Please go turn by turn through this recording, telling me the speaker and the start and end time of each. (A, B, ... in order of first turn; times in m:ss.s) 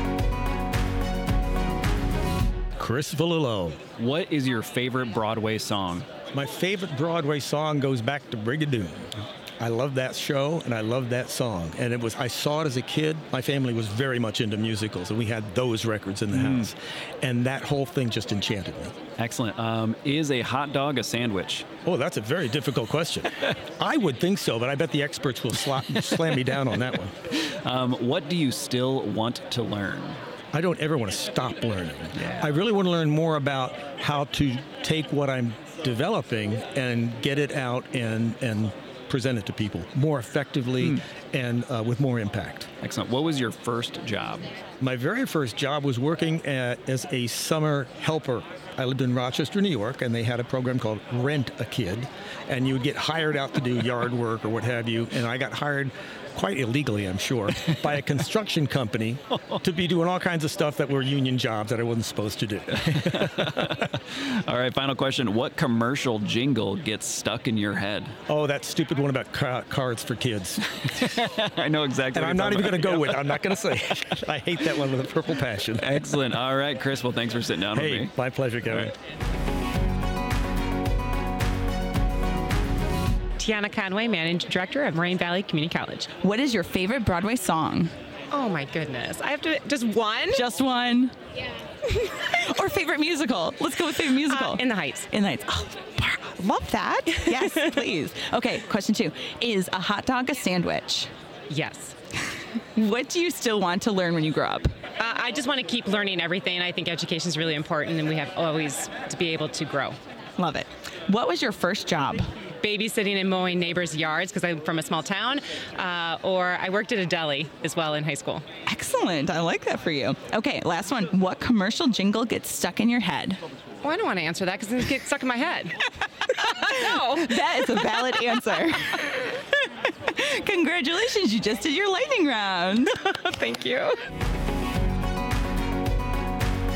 0:02.8-0:03.8 A
0:04.0-0:06.1 B
0:06.3-0:18.9 A
0:16.3-0:16.7 B
0:19.2-0:21.7 B
0:21.8-0:27.1 A
0:27.3-0:30.2 B
0:30.5-0:42.7 A
0:32.2-0:32.5 B
0:42.8-0:44.5 B
0:44.8-1:03.7 A
1:02.7-1:08.2 B
1:08.3-1:10.6 A
1:10.9-1:13.6 B
1:12.1-1:15.8 A
1:15.8-1:18.1 B
1:17.7-1:18.9 A
1:23.4-1:26.1 C
1:26.1-1:27.9 D
1:28.3-1:30.4 C
1:30.3-1:31.1 D
1:32.0-1:41.1 D
1:34.3-1:35.0 C
1:41.5-1:41.9 C
1:42.7-1:44.7 D
1:45.0-1:49.9 C
1:50.4-1:52.3 D
1:52.6-1:58.4 C
1:58.6-2:03.4 D
2:03.8-2:05.6 C
2:06.6-2:09.2 D
2:10.1-2:13.7 D